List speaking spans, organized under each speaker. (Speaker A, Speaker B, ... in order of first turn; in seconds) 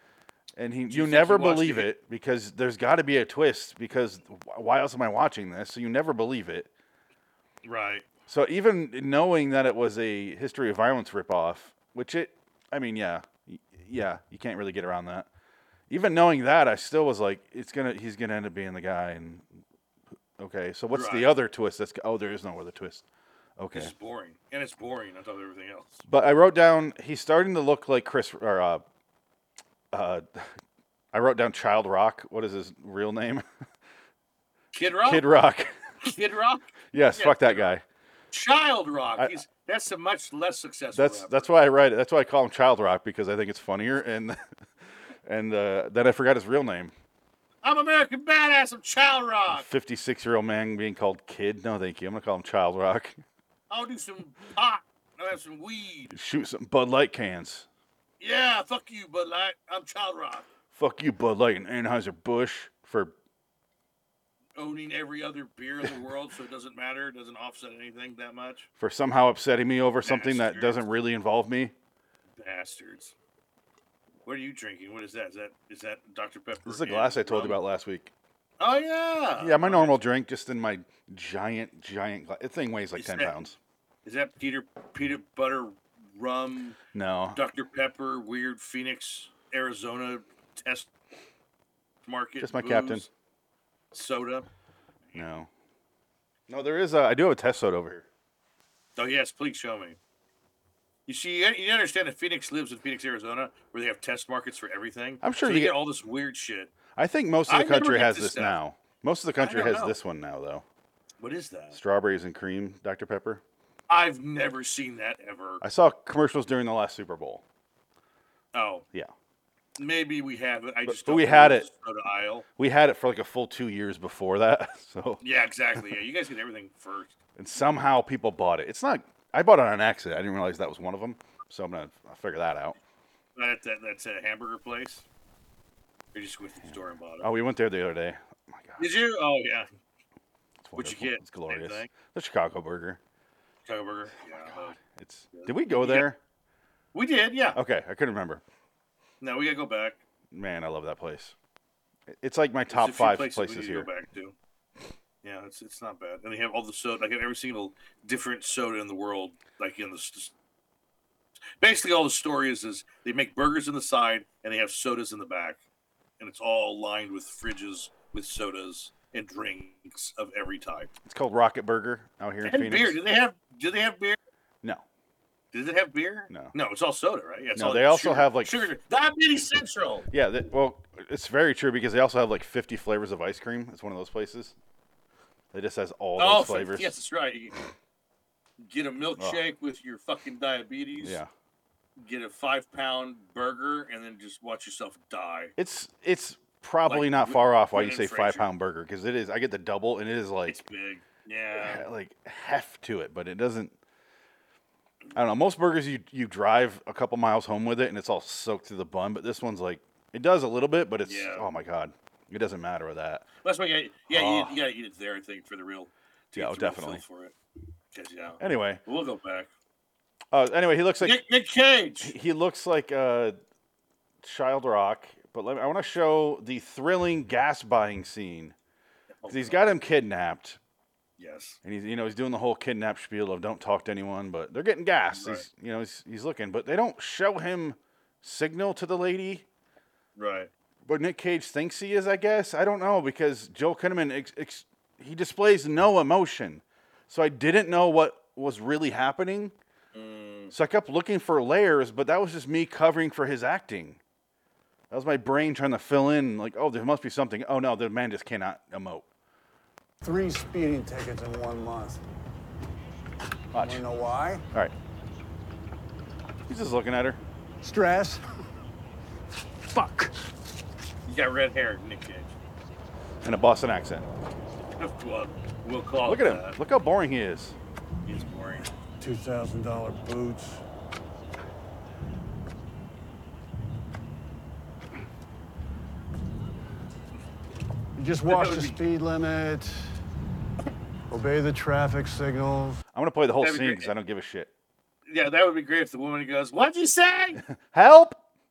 Speaker A: 0.6-6.7, 8.3-15.3, 15.9-19.5, 20.4-23.1, 23.6-23.9, 26.1-28.8, 29.9-30.5, 31.1-33.5, 35.0-35.7, 36.9-37.8, 39.2-39.4, 40.9-44.4, 45.2-46.9, 49.5-53.2, 56.1-57.7, 60.7-63.1, 68.8-71.7, 76.7-78.1, 79.4-83.6, 86.9-87.4, 92.4-93.1, 95.2-95.5, 96.5-98.1, 105.2-105.8, 107.0-110.7, 111.7-113.4, 115.6-117.4, 120.9-121.7, 122.6-125.2, 127.4-132.8, 137.2-138.9, 140.6-143.0, 144.2-146.2, 147.5-148.4, 150.3-151.3, 152.1-153.9, 171.1-173.0, 176.3-176.5, 177.6-178.7, 180.1-184.6, 185.5-186.9, 191.0-191.3, 195.6-200.6, 201.6-203.8, 205.2-213.3, 214.1-214.6, 216.3-217.0, 218.4-218.8, 220.3-221.2, 222.0-223.4, 224.2-228.6, 229.3-230.6, 231.6-239.4, 240.9-249.5, 250.5-254.0, 254.9-259.1, 263.5-263.9, 266.5-267.2, 273.2-274.1, 276.0-277.6, 292.9-294.5, 297.5-298.2
Speaker B: 0.9-1.9, 7.7-8.1, 20.9-21.3, 23.7-26.0, 34.7-35.3, 36.0-37.7, 38.3-41.5, 47.6-49.7, 53.7-56.2, 58.2-60.5, 64.6-68.7, 70.0-70.8, 72.4-73.2, 74.2-77.6, 78.6-80.0, 83.0-83.3, 84.0-86.8, 87.3-90.9, 92.1-93.1, 93.9-94.5, 99.0-100.0, 101.1-106.7, 107.5-108.6, 109.4-110.0, 111.2-111.8, 113.9-115.6, 118.5-118.9, 119.8-122.5, 125.2-127.1, 133.4-135.1, 136.1-137.3, 138.8-139.7, 140.8-141.9, 143.7-144.8, 145.3-146.1, 146.9-147.6, 149.2-150.0, 152.7-154.3, 155.2-160.3, 161.6-165.6, 166.2-170.9, 172.4-174.2, 175.5-180.1, 186.2-187.6, 188.6-191.2, 192.0-195.5, 196.9-198.5, 200.5-201.9, 211.0-211.5, 213.4-217.3, 217.9-219.5, 221.0-222.1, 229.2-229.7, 231.2-231.6, 235.1-235.5, 240.2-240.5, 249.9-250.5, 271.1-272.3, 274.8-276.6, 278.1-278.7, 288.3-288.8, 293.4-293.9, 295.1-297.4
Speaker C: 260.0-262.0, 263.6-264.4, 267.6-268.3, 269.7-270.1, 279.0-280.6, 288.0-290.0, 291.1-292.8